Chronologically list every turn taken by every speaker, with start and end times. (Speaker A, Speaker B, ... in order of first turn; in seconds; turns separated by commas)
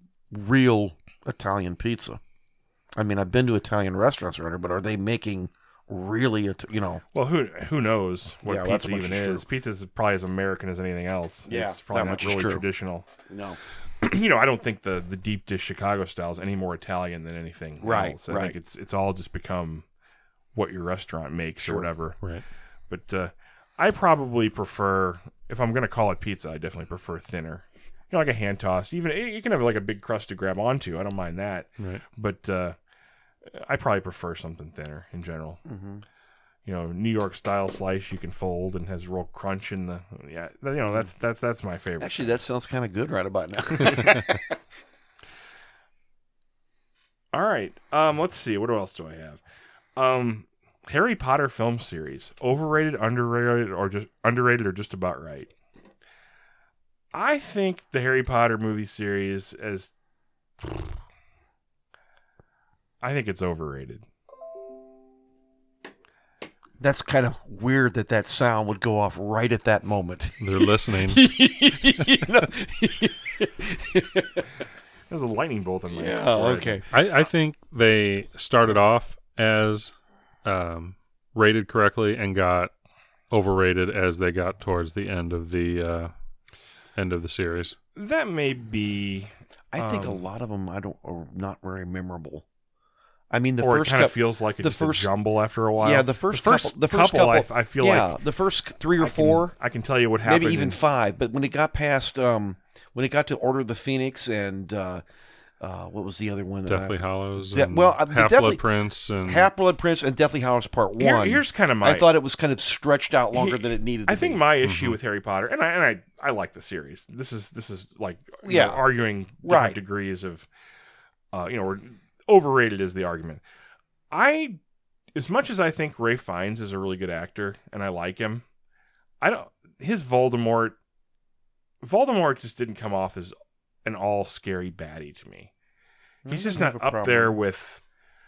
Speaker A: 0.3-2.2, Speaker A: 3.0-7.0, Speaker B: 7.1-13.1, Speaker A: 8.4-9.4, Speaker A: 11.5-12.6, Speaker A: 13.3-13.6, Speaker B: 14.0-19.8, Speaker A: 17.8-18.6, Speaker B: 20.5-22.2, Speaker A: 21.6-21.9, Speaker B: 22.9-32.8, Speaker B: 33.5-35.6, Speaker A: 35.6-36.0, Speaker B: 36.6-42.4, Speaker A: 42.0-44.5, Speaker B: 47.3-49.4, Speaker B: 50.0-55.5, Speaker B: 57.1-59.9, Speaker B: 63.0-64.0, Speaker A: 66.8-74.5, Speaker C: 70.4-71.2, Speaker B: 75.1-76.8, Speaker A: 75.9-76.8, Speaker C: 76.9-79.9, Speaker C: 80.4-82.7, Speaker C: 83.3-86.1, Speaker C: 87.0-87.8, Speaker B: 87.9-90.2, Speaker A: 89.7-92.4, Speaker A: 93.3-95.1, Speaker B: 93.6-98.2, Speaker A: 95.8-99.5, Speaker B: 99.0-100.8, Speaker A: 100.2-105.0, Speaker A: 105.6-108.6, Speaker C: 106.7-109.5, Speaker A: 109.2-114.4, Speaker B: 111.0-112.1, Speaker B: 113.3-120.5, Speaker C: 114.6-115.0, Speaker A: 118.4-118.8, Speaker A: 119.4-119.8, Speaker B: 121.3-123.4, Speaker B: 124.1-124.6, Speaker B: 125.1-128.4, Speaker B: 129.2-130.8, Speaker B: 131.8-133.3, Speaker B: 133.8-135.5, Speaker B: 136.2-137.8, Speaker A: 136.2-137.4